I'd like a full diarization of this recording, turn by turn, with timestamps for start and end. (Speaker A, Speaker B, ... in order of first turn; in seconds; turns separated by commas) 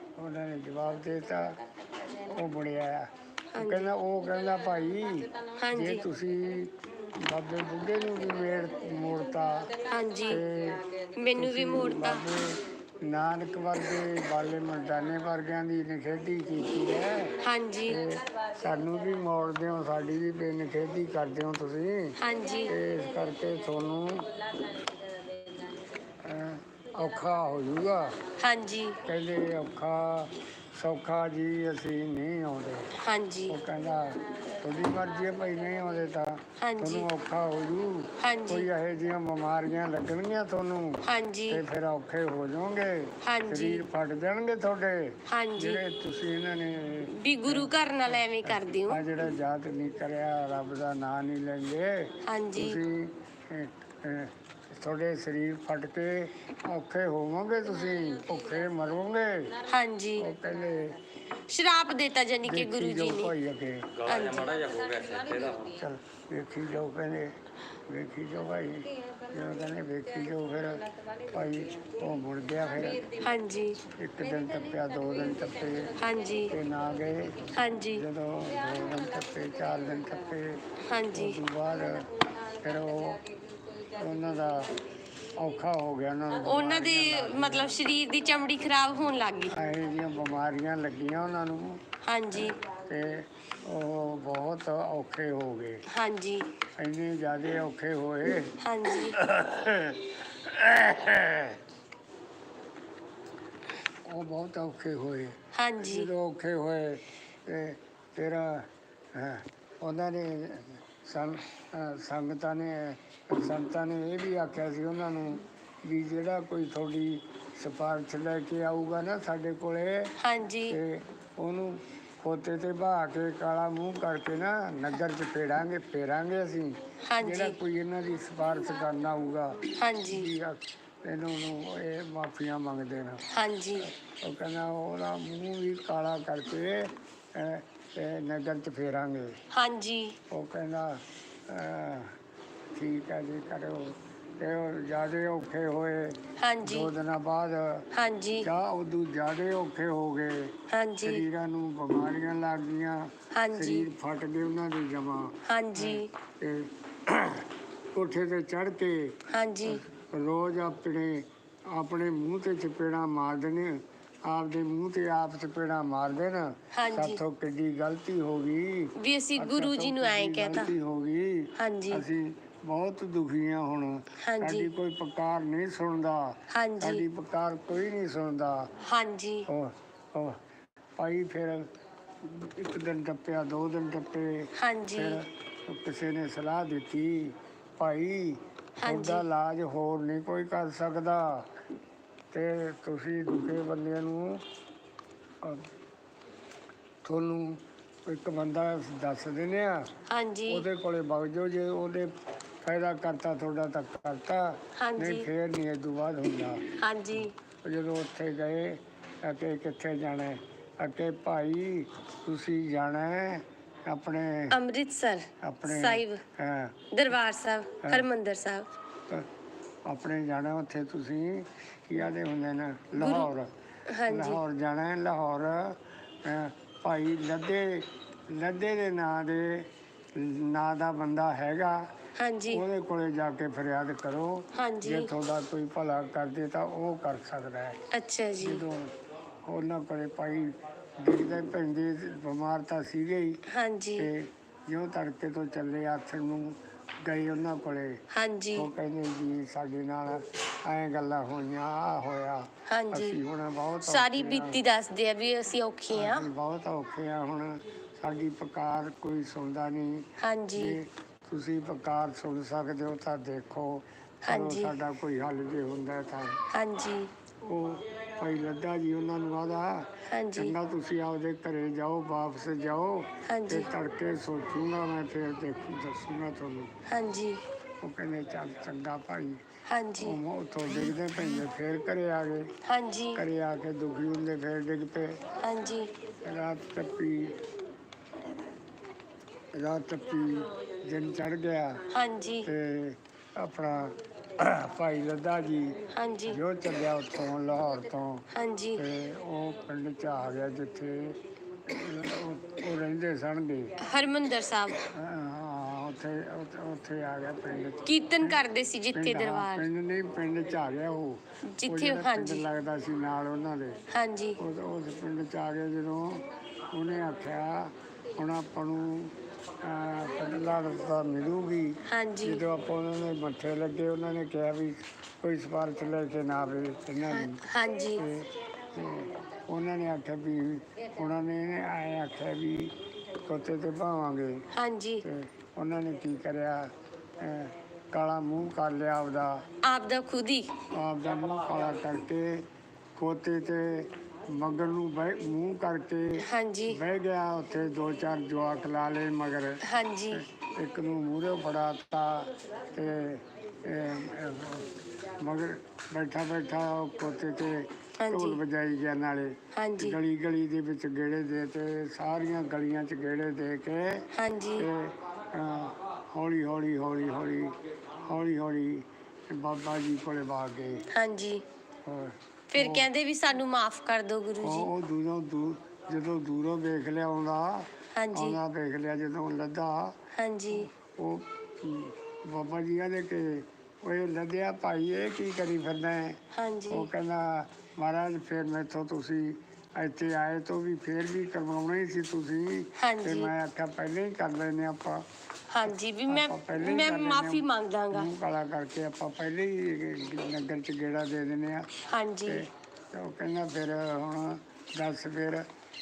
Speaker A: 0.2-1.6, Speaker B: 1.0-2.4, Speaker A: 2.3-9.7, Speaker C: 3.5-3.9, Speaker B: 4.2-6.4, Speaker C: 5.6-6.0, Speaker B: 7.9-11.4, Speaker C: 9.9-10.4, Speaker A: 10.2-10.8, Speaker C: 11.2-12.2, Speaker A: 11.3-24.3, Speaker B: 14.9-15.3, Speaker B: 16.3-20.0, Speaker C: 17.4-18.0, Speaker C: 22.2-22.7, Speaker B: 22.3-26.2, Speaker A: 26.2-28.1, Speaker B: 26.8-28.4, Speaker C: 28.4-29.0, Speaker A: 29.0-32.9, Speaker C: 33.0-33.6, Speaker A: 33.5-59.5, Speaker B: 33.7-36.2, Speaker C: 36.6-37.1, Speaker B: 37.3-38.2, Speaker C: 38.2-38.7, Speaker C: 41.0-41.6, Speaker C: 43.2-43.8, Speaker C: 45.3-45.8, Speaker C: 47.1-49.0, Speaker C: 52.2-52.8, Speaker B: 57.7-61.0, Speaker C: 59.7-60.3, Speaker A: 60.2-61.0, Speaker C: 61.5-63.3, Speaker A: 62.4-63.9, Speaker C: 64.0-64.6, Speaker B: 64.2-65.8, Speaker A: 65.7-67.3, Speaker A: 67.9-73.0, Speaker B: 68.8-72.0, Speaker B: 72.6-73.7, Speaker C: 73.2-73.8, Speaker A: 74.0-75.9, Speaker B: 74.2-77.7, Speaker C: 76.0-76.5, Speaker A: 76.5-82.1, Speaker C: 77.5-78.0, Speaker B: 78.4-80.3, Speaker C: 80.8-81.4, Speaker B: 81.7-85.6, Speaker A: 82.6-83.2, Speaker A: 84.0-84.7, Speaker A: 85.3-87.8, Speaker B: 86.3-88.2, Speaker C: 86.4-89.5, Speaker A: 89.5-95.8, Speaker C: 92.0-92.5, Speaker C: 95.9-96.5, Speaker A: 96.8-101.6, Speaker C: 98.6-99.2, Speaker A: 104.0-120.1, Speaker C: 105.5-106.1, Speaker C: 120.2-120.8, Speaker A: 120.7-133.2, Speaker C: 127.1-127.6, Speaker C: 129.8-130.3, Speaker C: 133.3-133.9, Speaker A: 133.8-139.4, Speaker C: 139.5-140.2, Speaker A: 140.3-142.1, Speaker A: 142.7-147.9, Speaker C: 146.4-146.9, Speaker C: 147.9-148.5, Speaker A: 148.4-178.7, Speaker C: 150.7-151.2, Speaker C: 153.3-153.9, Speaker C: 155.4-156.1, Speaker C: 159.3-159.8, Speaker C: 166.7-167.2, Speaker C: 168.9-170.7, Speaker C: 171.6-172.0, Speaker C: 174.2-174.7, Speaker C: 176.5-177.0, Speaker C: 178.8-179.5, Speaker A: 179.5-180.4, Speaker A: 181.0-181.7, Speaker A: 182.2-191.5, Speaker C: 184.6-185.2, Speaker C: 188.8-189.2, Speaker A: 192.3-194.4, Speaker A: 197.0-199.9, Speaker C: 200.1-200.6, Speaker A: 200.5-202.1, Speaker A: 202.6-206.6, Speaker C: 204.8-205.3, Speaker C: 206.8-207.3, Speaker A: 207.6-214.6, Speaker C: 214.5-216.2, Speaker A: 215.4-216.7, Speaker C: 216.9-218.7, Speaker A: 219.8-223.5, Speaker C: 223.0-223.3, Speaker C: 223.9-224.4, Speaker A: 224.1-231.8, Speaker C: 232.2-232.6, Speaker A: 232.5-237.8, Speaker C: 234.5-235.1, Speaker C: 237.9-238.6, Speaker A: 238.4-238.9, Speaker A: 239.4-243.4, Speaker C: 243.5-244.1, Speaker A: 244.0-248.0, Speaker C: 248.1-248.7, Speaker A: 248.5-254.6, Speaker C: 252.7-253.2, Speaker C: 253.8-256.2, Speaker A: 255.9-266.4, Speaker C: 260.2-260.8, Speaker C: 264.2-264.7, Speaker C: 266.5-267.1, Speaker A: 267.4-276.7, Speaker C: 270.1-270.5, Speaker C: 273.2-273.7, Speaker C: 276.9-277.4, Speaker A: 277.8-279.4, Speaker C: 279.7-280.2, Speaker A: 280.0-282.5, Speaker C: 282.6-283.2, Speaker A: 283.1-285.2, Speaker C: 285.4-285.9, Speaker A: 286.2-287.4, Speaker A: 289.5-291.8, Speaker C: 291.9-292.5, Speaker A: 292.4-295.8, Speaker C: 295.9-296.4, Speaker A: 296.3-298.2, Speaker C: 298.3-298.8, Speaker A: 298.8-303.8, Speaker C: 303.8-304.8, Speaker A: 304.8-308.4, Speaker C: 307.9-309.6, Speaker A: 308.9-313.8, Speaker C: 311.5-312.4, Speaker C: 313.9-314.4, Speaker A: 314.4-334.5, Speaker C: 321.9-322.4, Speaker C: 327.1-328.0, Speaker C: 334.5-335.0, Speaker A: 335.0-339.4, Speaker C: 339.6-340.5, Speaker A: 340.7-370.9, Speaker C: 346.2-346.8, Speaker C: 349.6-350.2, Speaker C: 358.0-358.4, Speaker C: 359.5-360.0, Speaker C: 364.1-364.7, Speaker C: 370.9-371.4, Speaker A: 371.8-372.9, Speaker C: 372.5-374.7, Speaker A: 374.4-380.0, Speaker C: 377.9-378.4, Speaker C: 380.1-380.7, Speaker A: 380.6-395.0, Speaker C: 386.3-386.9, Speaker C: 392.8-393.3, Speaker C: 395.5-398.1, Speaker A: 395.6-401.7, Speaker C: 401.9-402.4, Speaker A: 402.2-405.4